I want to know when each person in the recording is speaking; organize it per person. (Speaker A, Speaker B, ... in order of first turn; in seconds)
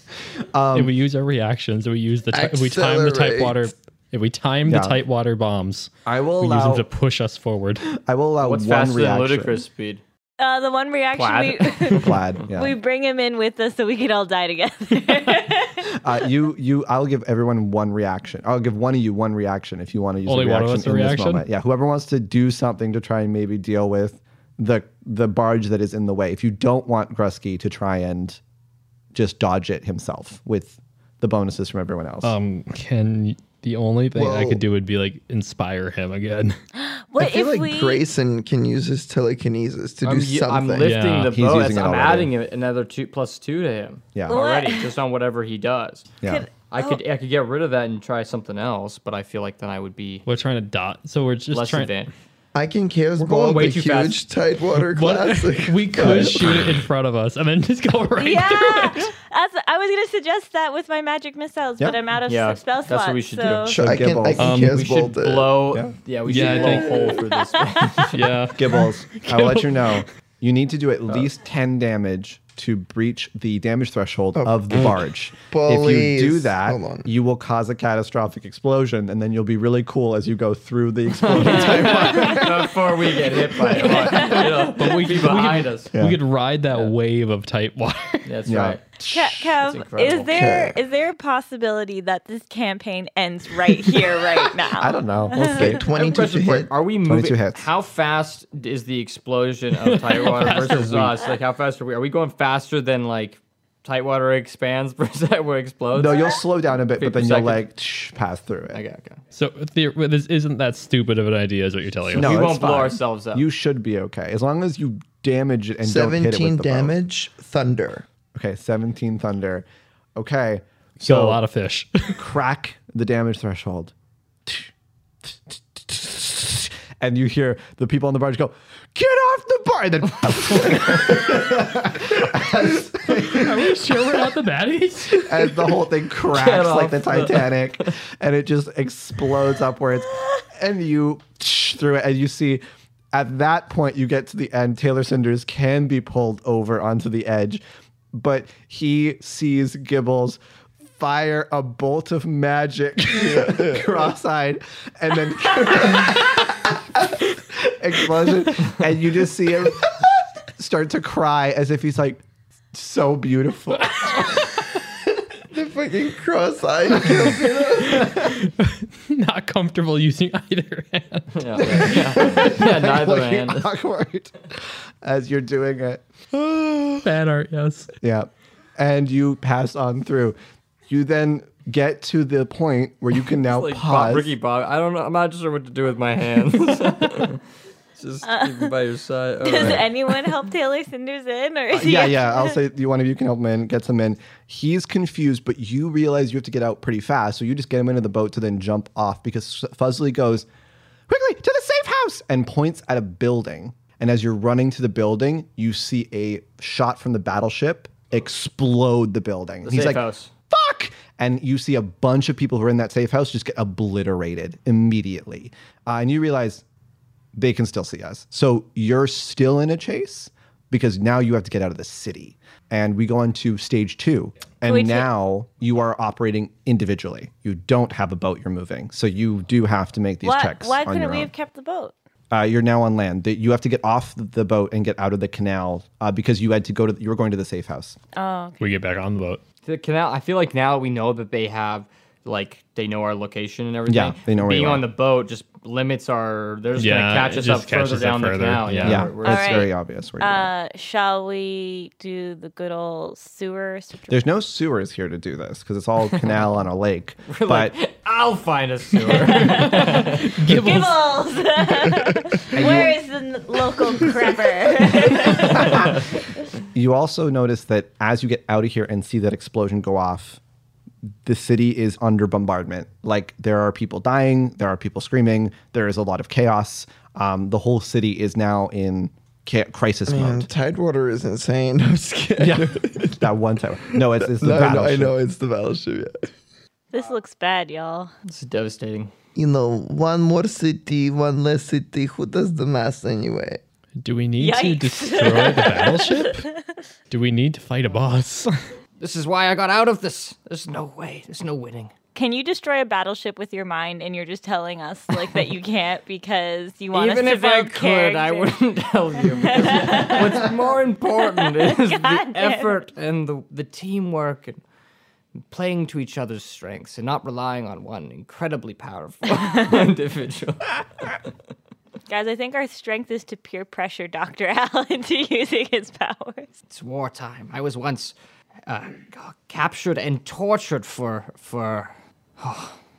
Speaker A: 0.5-0.9, 4.7-5.0, 6.0-6.8, 7.9-9.6, 11.9-12.7, 15.9-28.4, 29.1-32.3, 41.3-42.3, 44.1-44.4, 56.0-56.6, 63.8-64.6, 68.5-83.9, 88.5-89.6, 94.8-95.8, 97.0-97.7, 105.9-108.8, 112.1-116.9, 118.3-119.6, 120.2-121.4, 122.1-123.9, 124.5-124.7, 125.2-133.9, 135.2-147.6, 148.1-150.4, 151.0-164.4, 171.6-176.4, 178.0-180.3, 180.9-184.3, 191.7-200.4, 201.1-216.6, 217.3-231.3, 232.3-237.9, 243.9-244.9, 248.8-250.5, 254.1-257.7, 262.5-263.0, 265.4-265.9, 266.7-270.4, 271.2-280.5, 282.4-285.1
Speaker B: 0.7-7.9, 20.2-21.4, 32.2-36.5, 40.8-41.4, 50.2-52.0, 54.9-59.1, 64.4-64.8, 66.2-67.2, 68.1-70.0, 84.2-88.3, 99.8-101.2, 109.3-112.4, 121.0-122.2, 133.1-135.5, 167.8-172.5, 177.0-177.9, 238.6-239.4, 246.8-249.1, 259.4-261.1, 294.0-296.4, 297.1-298.5
Speaker C: 2.3-3.7, 34.1-34.6, 37.2-40.9, 52.5-56.8, 63.7-65.5, 66.3-67.3, 74.3-77.1, 90.3-90.8, 95.4-96.7, 115.8-118.0, 153.1-154.0, 165.5-168.3, 280.1-283.2, 283.9-286.2, 289.4-293.6
Speaker D: 8.4-10.0, 11.2-12.2, 40.0-46.1, 46.7-50.2, 51.5-52.1, 53.2-54.2, 62.3-63.8, 64.4-68.3, 81.2-85.9, 88.2-88.8, 89.6-90.3, 95.8-107.7, 108.7-109.2, 112.1-113.4, 136.3-137.9, 171.3-173.7, 183.4-187.4, 187.9-190.4, 209.6-210.3, 239.6-249.7, 257.3-260.4, 265.2-266.0, 288.2-289.1, 299.0-301.9, 306.9-314.6, 315.5-321.2, 326.7-328.1, 328.7-332.8
Speaker E: 10.4-15.9, 36.8-38.0, 44.3-44.9, 46.2-47.0, 58.2-63.8, 83.7-84.7, 89.1-95.8, 188.2-188.7, 189.4-192.6, 224.7-225.1, 230.2-231.9, 238.1-238.7, 249.2-254.2, 259.1-266.0, 286.9-288.1, 294.4-296.8, 302.1-308.5, 309.3-310.5, 311.2-312.7, 322.1-326.5